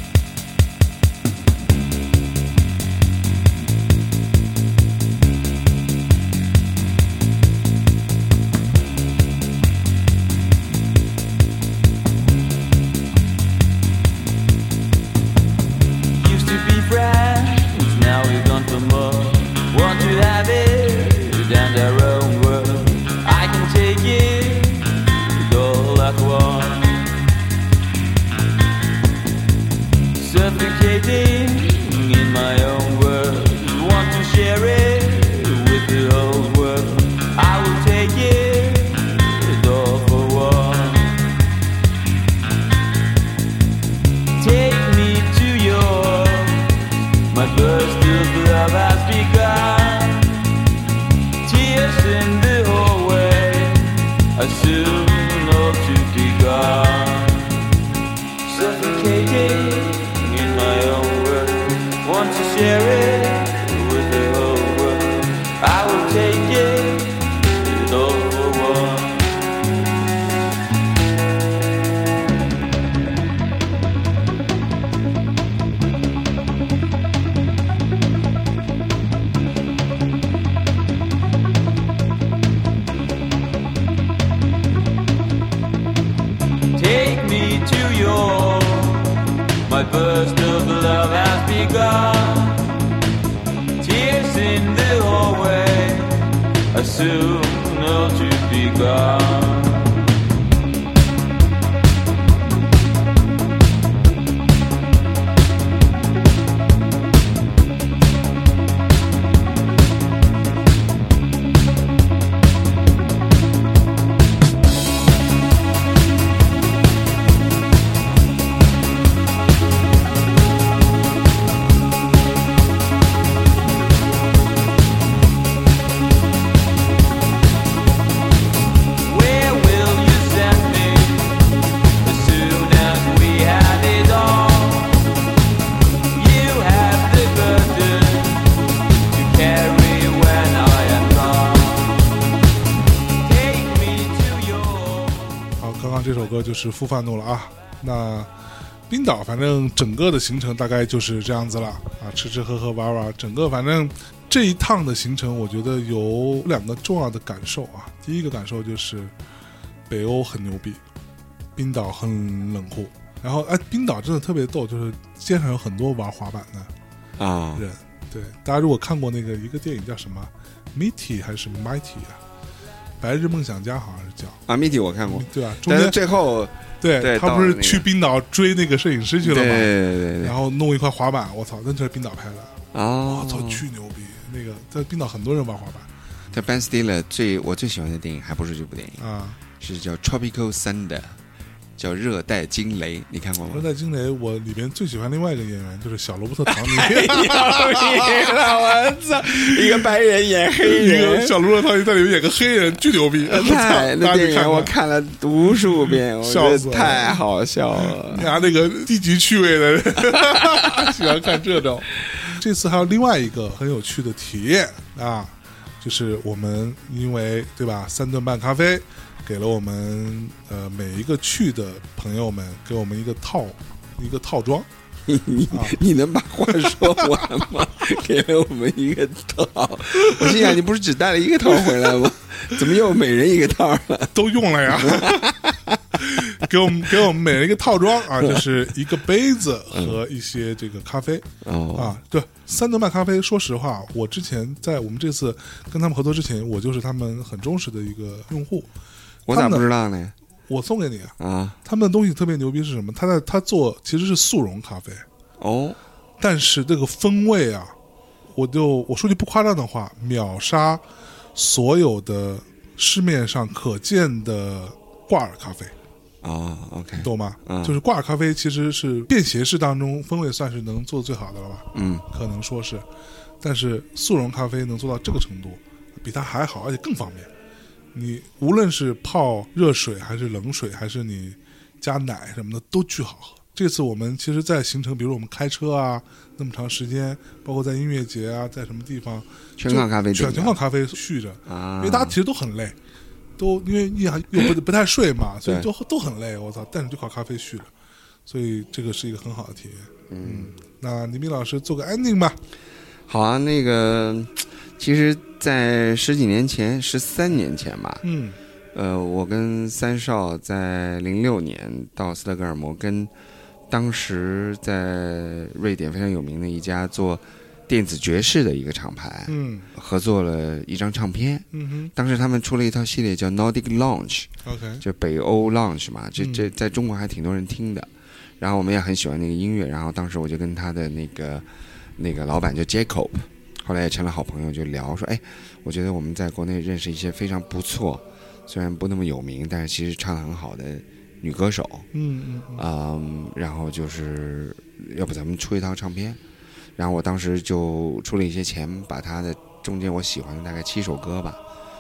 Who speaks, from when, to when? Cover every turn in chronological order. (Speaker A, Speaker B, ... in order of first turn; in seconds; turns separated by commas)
Speaker A: 16.1-27.2, Speaker A: 30.1-41.3, Speaker A: 44.4-50.6, Speaker A: 51.4-57.6, Speaker A: 58.4-69.4, Speaker A: 86.8-92.8, Speaker A: 93.8-100.1, Speaker A: 129.1-131.4, Speaker A: 132.0-135.1, Speaker A: 136.1-142.1, Speaker A: 143.2-145.5, Speaker B: 145.6-148.3, Speaker B: 148.9-159.1, Speaker B: 159.9-160.8, Speaker B: 161.6-166.7, Speaker C: 167.2-167.7, Speaker B: 167.6-172.2, Speaker B: 173.0-174.4, Speaker C: 174.5-177.9, Speaker B: 175.1-176.0, Speaker B: 176.8-185.9, Speaker C: 179.2-180.4, Speaker C: 182.7-183.7, Speaker C: 186.3-189.0, Speaker B: 189.0-189.4, Speaker C: 189.6-191.2, Speaker C: 191.8-193.7, Speaker B: 193.5-198.4, Speaker C: 196.5-201.4, Speaker B: 199.3-199.8, Speaker B: 200.6-204.7, Speaker C: 203.2-208.3, Speaker B: 205.7-207.2, Speaker B: 207.8-224.7, Speaker C: 210.1-211.0, Speaker C: 225.1-234.2, Speaker B: 225.5-225.8, Speaker B: 226.6-227.0, Speaker B: 230.0-230.5, Speaker B: 234.1-235.4, Speaker C: 234.7-235.8, Speaker B: 236.0-248.7, Speaker C: 239.7-240.0, Speaker C: 241.4-242.0, Speaker C: 249.3-250.1, Speaker B: 249.3-249.7, Speaker B: 250.5-255.1, Speaker C: 251.2-251.6, Speaker C: 255.4-255.8, Speaker B: 256.2-257.7, Speaker B: 258.3-260.8, Speaker B: 261.4-265.7, Speaker C: 266.2-267.8, Speaker B: 267.0-272.9, Speaker C: 271.7-272.1, Speaker B: 273.4-277.3, Speaker B: 277.9-292.8, Speaker C: 289.6-290.6, Speaker C: 291.5-292.2, Speaker B: 293.4-297.7, Speaker B: 298.3-302.4, Speaker C: 300.1-300.6, Speaker C: 303.1-308.0, Speaker B: 308.0-308.4, Speaker C: 308.7-313.1, Speaker C: 313.7-341.9, Speaker B: 319.3-319.7, Speaker B: 321.5-321.9, Speaker B: 324.4-324.8, Speaker B: 326.2-326.5, Speaker B: 341.9-342.6, Speaker C: 342.6-346.2, Speaker C: 346.8-351.4